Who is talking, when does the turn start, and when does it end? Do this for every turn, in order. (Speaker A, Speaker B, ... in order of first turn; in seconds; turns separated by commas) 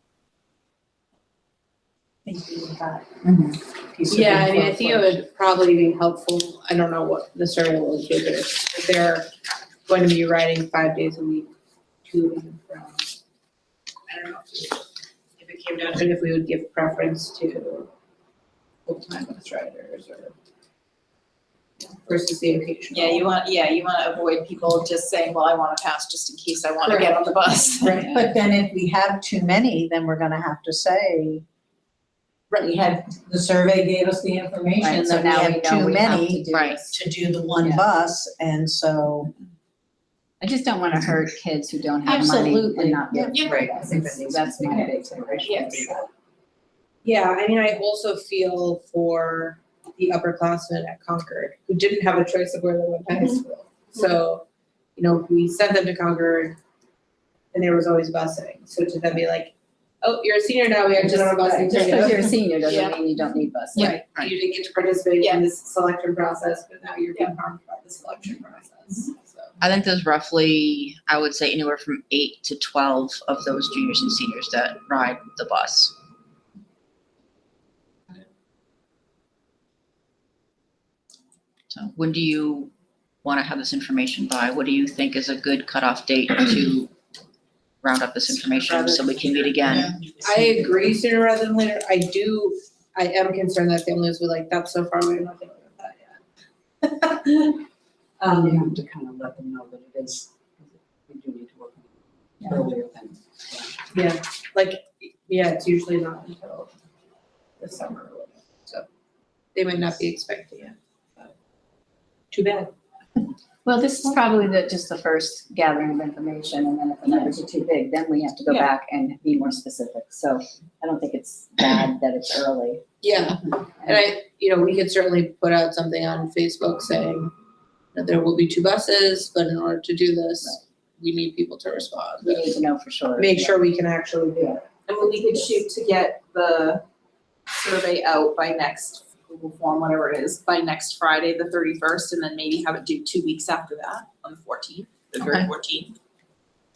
Speaker A: 2.3-3.2, Speaker A: 3.9-5.2, Speaker B: 4.1-9.3, Speaker B: 9.9-11.5, Speaker B: 12.1-13.1, Speaker B: 14.1-14.8, Speaker B: 15.4-17.9, Speaker B: 18.9-20.3, Speaker B: 21.8-23.3, Speaker C: 22.9-28.0, Speaker B: 26.8-27.2, Speaker B: 27.8-28.1, Speaker A: 28.1-31.4, Speaker A: 32.5-39.3, Speaker D: 34.8-37.0, Speaker E: 36.5-36.8, Speaker D: 40.4-46.0, Speaker A: 42.0-44.4, Speaker F: 44.0-44.5, Speaker F: 45.3-45.6, Speaker B: 47.0-56.6, Speaker B: 57.5-62.4, Speaker D: 61.0-64.0, Speaker C: 62.7-62.9, Speaker E: 63.8-64.3, Speaker B: 63.8-69.6, Speaker C: 65.2-65.5, Speaker E: 69.6-75.9, Speaker E: 81.7-82.7, Speaker E: 83.2-86.9, Speaker E: 87.8-90.0, Speaker B: 88.7-89.0, Speaker F: 89.3-90.2, Speaker B: 90.2-96.2, Speaker B: 96.8-97.6, Speaker F: 98.2-103.8, Speaker B: 103.9-106.7, Speaker B: 107.6-108.9, Speaker B: 109.5-111.3, Speaker B: 112.3-112.7, Speaker D: 113.7-123.0, Speaker B: 123.0-127.3, Speaker B: 127.9-132.5, Speaker D: 132.2-133.6, Speaker B: 133.2-134.7, Speaker C: 134.9-136.8, Speaker C: 137.5-145.9, Speaker B: 145.2-145.5